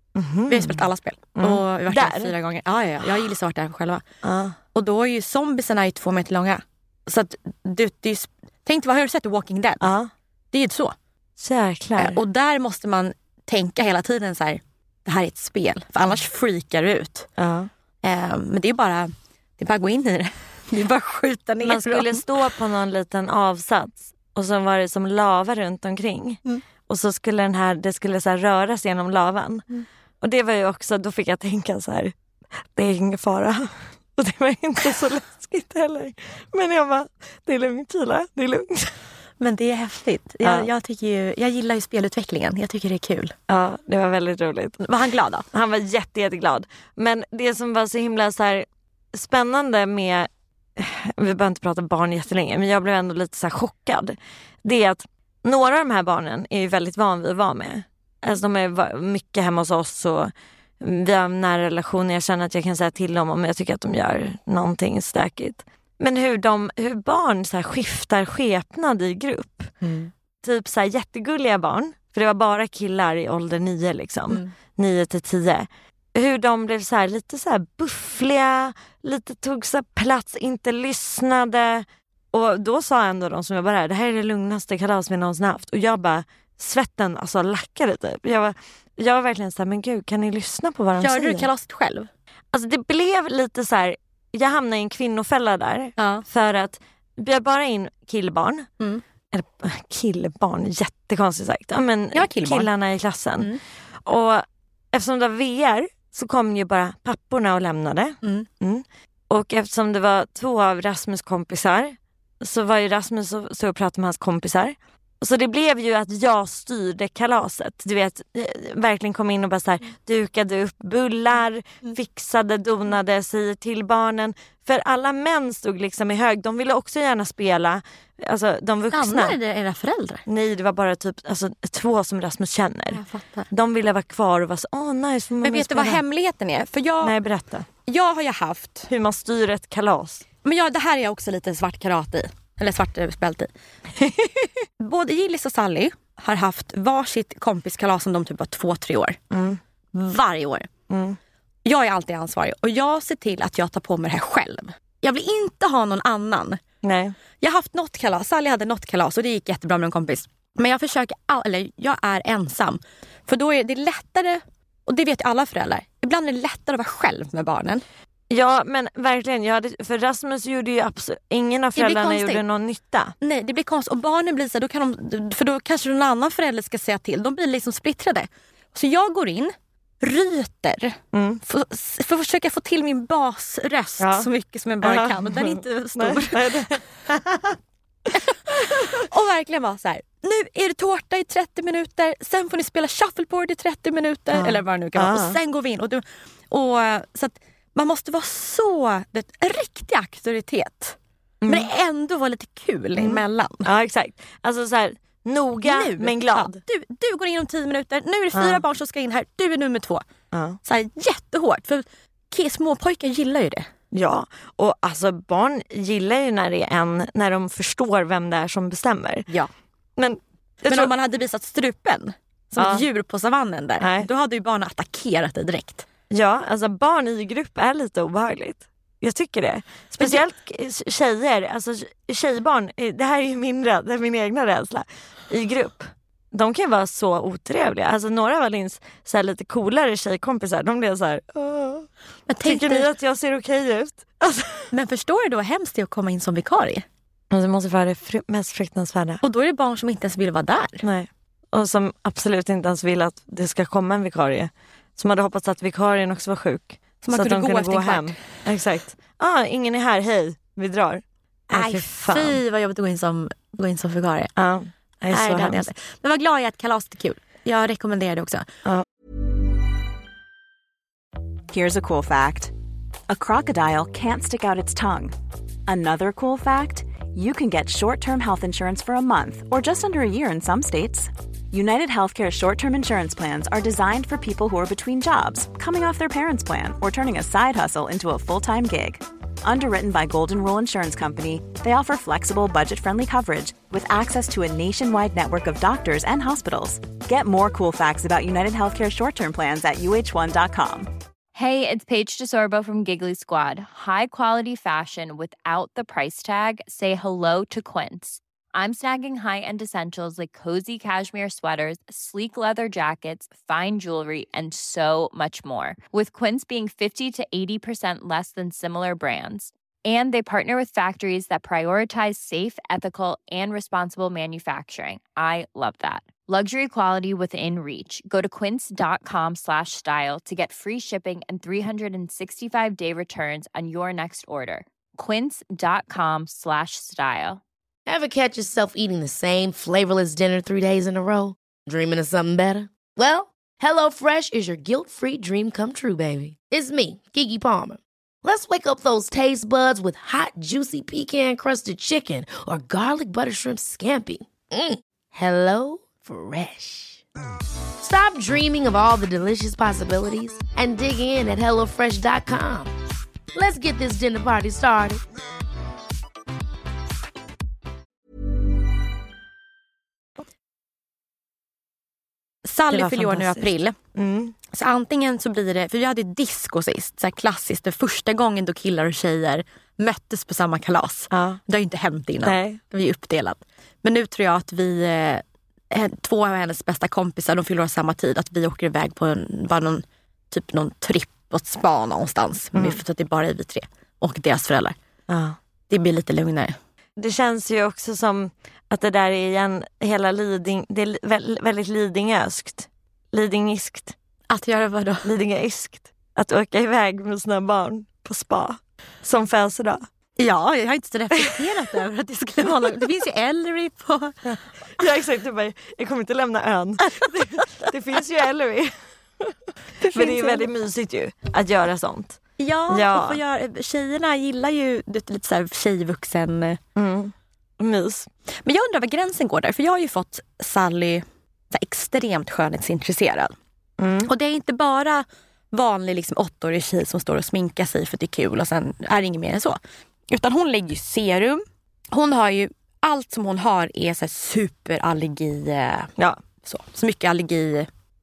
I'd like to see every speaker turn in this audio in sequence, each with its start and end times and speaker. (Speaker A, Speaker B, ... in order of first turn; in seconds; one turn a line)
Speaker A: 0.2-0.8
Speaker B: 0.5-4.0
Speaker A: 1.4-2.3
Speaker A: 4.2-4.6
Speaker B: 4.7-9.9
Speaker A: 9.8-10.1
Speaker B: 10.5-10.9
Speaker A: 11.4-12.2
Speaker B: 12.0-17.3
Speaker A: 17.4-17.7
Speaker B: 18.0-22.3
Speaker A: 21.6-29.6
Speaker A: 30.2-32.1
Speaker A: 32.8-38.9
Speaker B: 39.4-43.4
Speaker A: 43.5-44.8
Speaker B: 44.8-45.5
Speaker A: 45.5-69.7
Speaker B: 69.8-70.1
Speaker A: 70.4-91.5
Speaker B: 91.0-92.1
Speaker A: 92.5-98.7
Speaker B: 96.0-96.2
Speaker A: 99.3-103.5
Speaker B: 102.1-102.7
Speaker A: 104.1-129.4
Speaker B: 108.2-108.5
Speaker B: 128.9-130.2
Speaker A: 130.3-136.0
Speaker B: 132.9-133.5
Speaker B: 135.4-137.2
Speaker A: 137.0-137.7
Speaker B: 137.9-138.9
Speaker A: 138.9-140.2
Speaker B: 140.4-149.2
Speaker A: 149.3-149.6
Speaker B: 149.9-150.7
Speaker A: 150.9-151.2
Speaker B: 151.7-156.6
Speaker A: 156.8-157.2
Speaker B: 157.4-167.8
Speaker A: 168.3-173.1
Speaker B: 171.8-172.4
Speaker B: 173.2-186.8
Speaker A: 181.1-181.4
Speaker A: 184.0-184.3
Speaker A: 184.8-187.6
Speaker B: 188.1-203.7
Speaker A: 188.6-189.0
Speaker A: 194.3-195.4
Speaker A: 201.4-201.7
Speaker A: 203.0-206.6
Speaker B: 205.6-210.0
Speaker A: 208.3-208.6
Speaker A: 210.3-210.6
Speaker B: 210.7-213.7
Speaker A: 213.9-219.3
Speaker A: 220.0-220.9
Speaker B: 220.6-225.9
Speaker A: 222.6-222.8
Speaker A: 223.8-224.1
Speaker A: 226.1-241.9
Speaker B: 242.3-242.9
Speaker A: 242.4-244.7
Speaker B: 244.7-246.8
Speaker A: 247.3-249.2
Speaker B: 249.2-250.8
Speaker A: 250.8-262.4
Speaker B: 257.0-258.2
Speaker B: 261.5-264.3
Speaker A: 264.4-265.7
Speaker B: 265.1-268.5
Speaker C: 271.5-272.5
Speaker C: 273.1-275.2
Speaker C: 275.7-300.9
Speaker D: 301.4-337.4
Speaker E: 337.9-357.0
Speaker E: 357.8-362.7
Speaker E: 363.3-365.0
Speaker B: 372.4-373.8
Speaker A: 372.7-374.4
Speaker B: 374.5-394.8
Speaker A: 381.1-381.4
Speaker A: 382.2-382.6
Speaker A: 392.6-392.8
Speaker A: 395.1-395.4
Speaker B: 395.7-396.6
Speaker A: 397.0-403.9
Speaker B: 404.3-405.1
Speaker A: 405.0-409.8
Speaker B: 410.2-414.2
Speaker A: 414.3-418.7
Speaker B: 417.0-417.4
Speaker A: 419.2-423.2
Speaker B: 419.8-420.5
Speaker B: 422.4-426.6
Speaker A: 426.8-428.1
Speaker B: 428.4-433.3
Speaker A: 433.8-434.1
Speaker B: 434.1-439.6
Speaker B: 440.1-445.9
Speaker B: 446.4-447.7